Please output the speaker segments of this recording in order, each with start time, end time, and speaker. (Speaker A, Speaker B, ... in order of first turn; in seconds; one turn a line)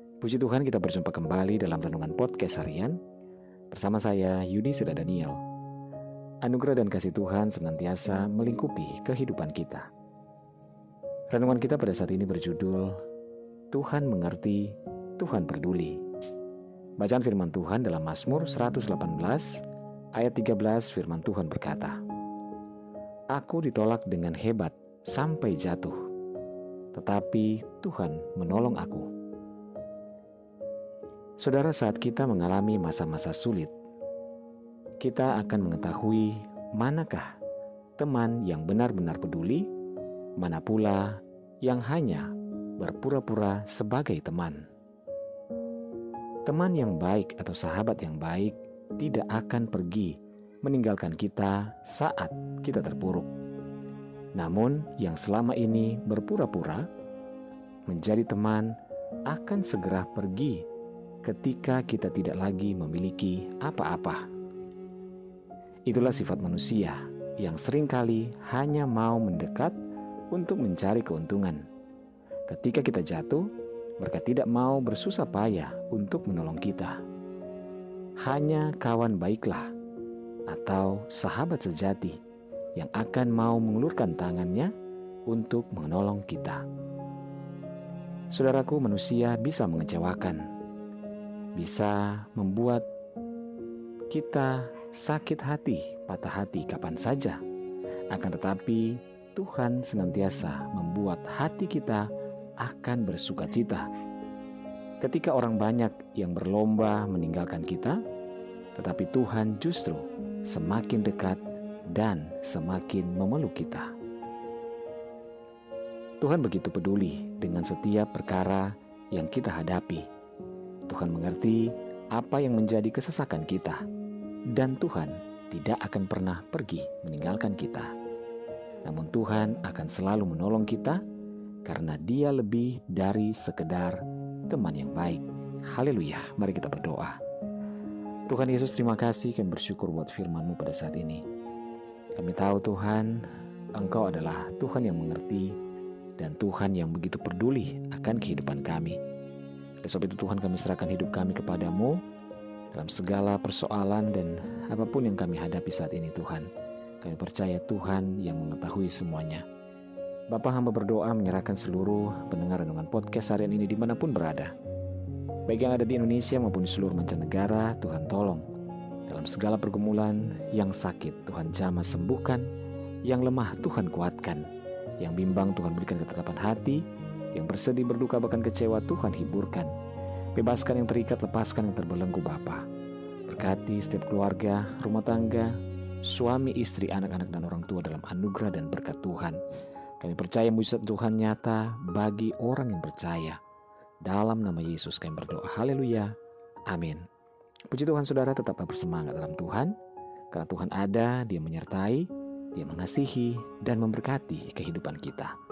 Speaker A: 0.2-3.0
Speaker A: 3.7-5.4
Speaker A: 6.4-9.9
Speaker A: 11.3-13.0
Speaker A: 13.7-16.0
Speaker A: 17.0-19.6
Speaker A: 20.1-22.0
Speaker A: 23.3-26.0
Speaker A: 26.9-29.1
Speaker A: 31.4-33.7
Speaker A: 35.0-37.4
Speaker A: 38.0-39.7
Speaker A: 40.4-42.3
Speaker A: 42.8-44.6
Speaker A: 46.5-53.3
Speaker A: 54.4-56.9
Speaker A: 57.9-58.7
Speaker A: 59.3-60.6
Speaker A: 61.2-64.2
Speaker A: 65.9-69.7
Speaker A: 70.3-71.6
Speaker A: 72.5-73.4
Speaker A: 74.0-77.0
Speaker A: 78.2-79.7
Speaker A: 80.5-82.2
Speaker A: 82.8-84.7
Speaker A: 85.3-86.6
Speaker A: 88.3-90.4
Speaker A: 91.5-92.8
Speaker A: 94.1-97.4
Speaker A: 98.1-102.0
Speaker A: 102.6-103.9
Speaker A: 105.0-108.0
Speaker A: 108.8-111.4
Speaker A: 111.9-113.9
Speaker A: 116.2-120.0
Speaker A: 120.9-123.8
Speaker A: 124.5-127.9
Speaker A: 128.8-131.0
Speaker A: 131.6-137.2
Speaker A: 138.3-141.2
Speaker A: 142.1-143.2
Speaker A: 143.7-145.6
Speaker A: 146.2-149.0
Speaker A: 149.8-152.0
Speaker A: 152.7-156.5
Speaker A: 157.0-159.4
Speaker A: 160.3-164.5
Speaker A: 165.5-168.4
Speaker A: 169.1-172.5
Speaker A: 173.1-174.4
Speaker A: 175.0-179.7
Speaker A: 180.3-182.6
Speaker A: 183.3-189.4
Speaker A: 190.0-193.4
Speaker A: 194.0-196.1
Speaker A: 196.7-197.0
Speaker A: 197.7-199.7
Speaker A: 200.3-205.3